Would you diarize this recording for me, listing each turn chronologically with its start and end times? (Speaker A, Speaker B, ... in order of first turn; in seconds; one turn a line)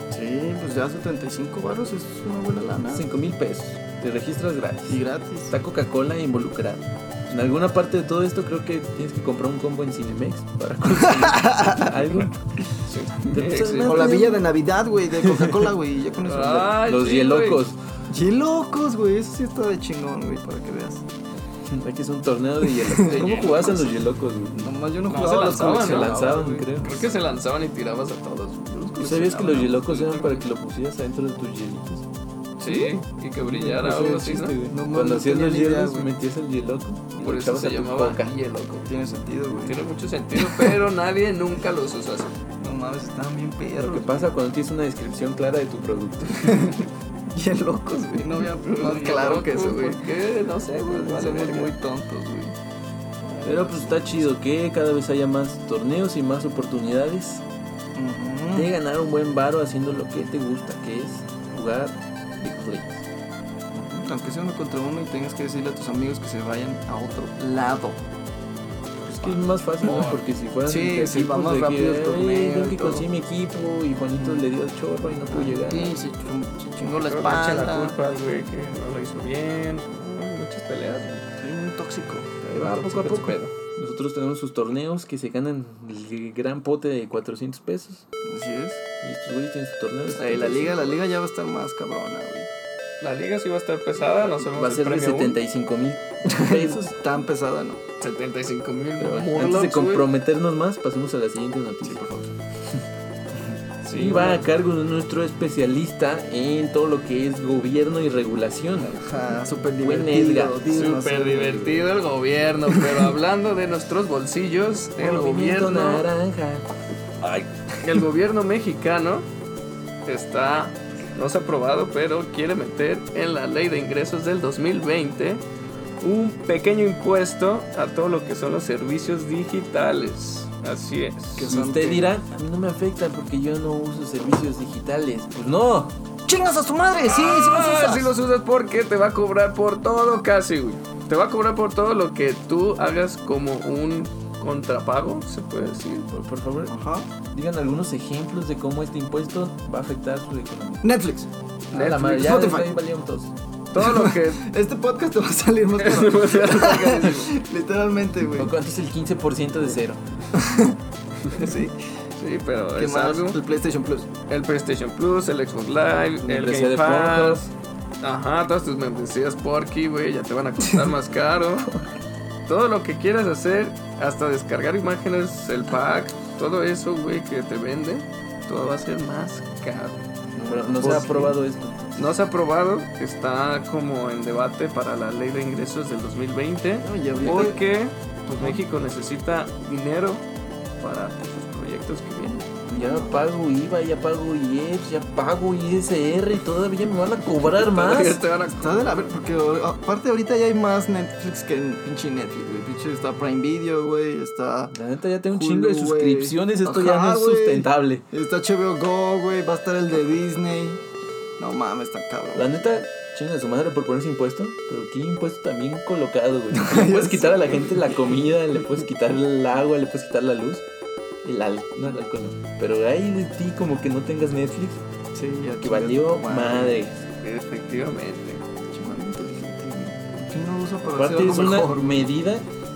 Speaker A: 0.1-3.0
Speaker B: 2.9-12.4
Speaker A: 4.9-5.5
Speaker A: 11.1-12.0
Speaker C: 12.8-14.2
Speaker B: 13.3-14.5
Speaker A: 13.8-16.8
Speaker B: 15.2-15.7
Speaker C: 16.2-17.6
Speaker B: 16.8-17.8
Speaker A: 18.1-21.1
Speaker B: 21.6-24.7
Speaker A: 22.6-24.0
Speaker C: 23.1-23.7
Speaker A: 24.6-26.7
Speaker C: 25.1-30.4
Speaker B: 25.3-27.1
Speaker B: 29.0-32.0
Speaker C: 32.6-34.6
Speaker B: 33.4-38.3
Speaker A: 34.6-36.1
Speaker C: 37.2-38.9
Speaker A: 38.9-39.8
Speaker C: 39.6-42.4
Speaker A: 40.4-40.8
Speaker A: 42.6-44.4
Speaker B: 43.8-46.8
Speaker A: 46.5-50.0
Speaker C: 48.6-51.7
Speaker A: 50.8-52.6
Speaker A: 53.3-54.2
Speaker B: 53.4-57.4
Speaker A: 57.9-58.7
Speaker B: 58.5-63.0
Speaker A: 63.7-68.0
Speaker B: 69.0-76.0
Speaker C: 69.8-70.2
Speaker A: 70.7-73.1
Speaker A: 74.1-74.5
Speaker A: 75.3-78.0
Speaker C: 76.9-81.3
Speaker A: 81.4-82.3
Speaker C: 82.5-83.5
Speaker B: 82.5-88.0
Speaker A: 88.2-88.8
Speaker B: 89.0-91.0
Speaker A: 90.1-92.5
Speaker C: 93.0-95.4
Speaker B: 94.2-97.0
Speaker A: 96.2-97.8
Speaker C: 98.0-100.1
Speaker B: 99.0-102.0
Speaker A: 101.8-102.3
Speaker C: 103.8-104.5
Speaker B: 103.9-109.0
Speaker A: 108.8-112.0
Speaker B: 109.8-110.6
Speaker C: 110.7-116.1
Speaker A: 112.7-113.1
Speaker B: 115.0-116.7
Speaker C: 117.2-119.3
Speaker C: 120.1-125.4
Speaker C: 126.0-131.5
Speaker A: 131.4-132.1
Speaker B: 131.4-135.9
Speaker A: 136.3-138.2
Speaker C: 137.1-146.1
Speaker B: 146.1-146.8
Speaker A: 146.7-147.1
Speaker B: 147.3-150.8
Speaker A: 150.8-151.3
Speaker C: 151.7-152.6
Speaker B: 151.7-153.3
Speaker A: 152.0-152.7
Speaker C: 153.7-154.4
Speaker A: 153.8-158.5
Speaker C: 155.8-157.3
Speaker B: 158.3-160.0
Speaker A: 160.3-160.8
Speaker A: 161.3-161.8
Speaker C: 162.2-163.4
Speaker A: 162.8-164.1
Speaker C: 164.3-167.5
Speaker B: 166.2-167.5
Speaker C: 168.0-171.7
Speaker A: 170.7-170.9
Speaker C: 172.5-180.1
Speaker A: 180.3-181.3
Speaker B: 180.4-182.1
Speaker C: 180.8-181.3
Speaker C: 182.0-190.2
Speaker A: 186.8-187.7
Speaker C: 190.8-192.6
Speaker A: 192.7-193.3
Speaker B: 192.7-198.2
Speaker C: 197.5-199.1
Speaker A: 198.6-204.8
Speaker B: 204.7-208.1
Speaker A: 205.3-210.8
Speaker A: 211.4-212.8
Speaker B: 212.3-220.6
Speaker A: 216.5-217.9
Speaker B: 221.2-224.8
Speaker A: 225.1-226.9
Speaker B: 225.6-227.0
Speaker C: 227.2-228.4
Speaker A: 228.6-232.1
Speaker B: 231.0-232.5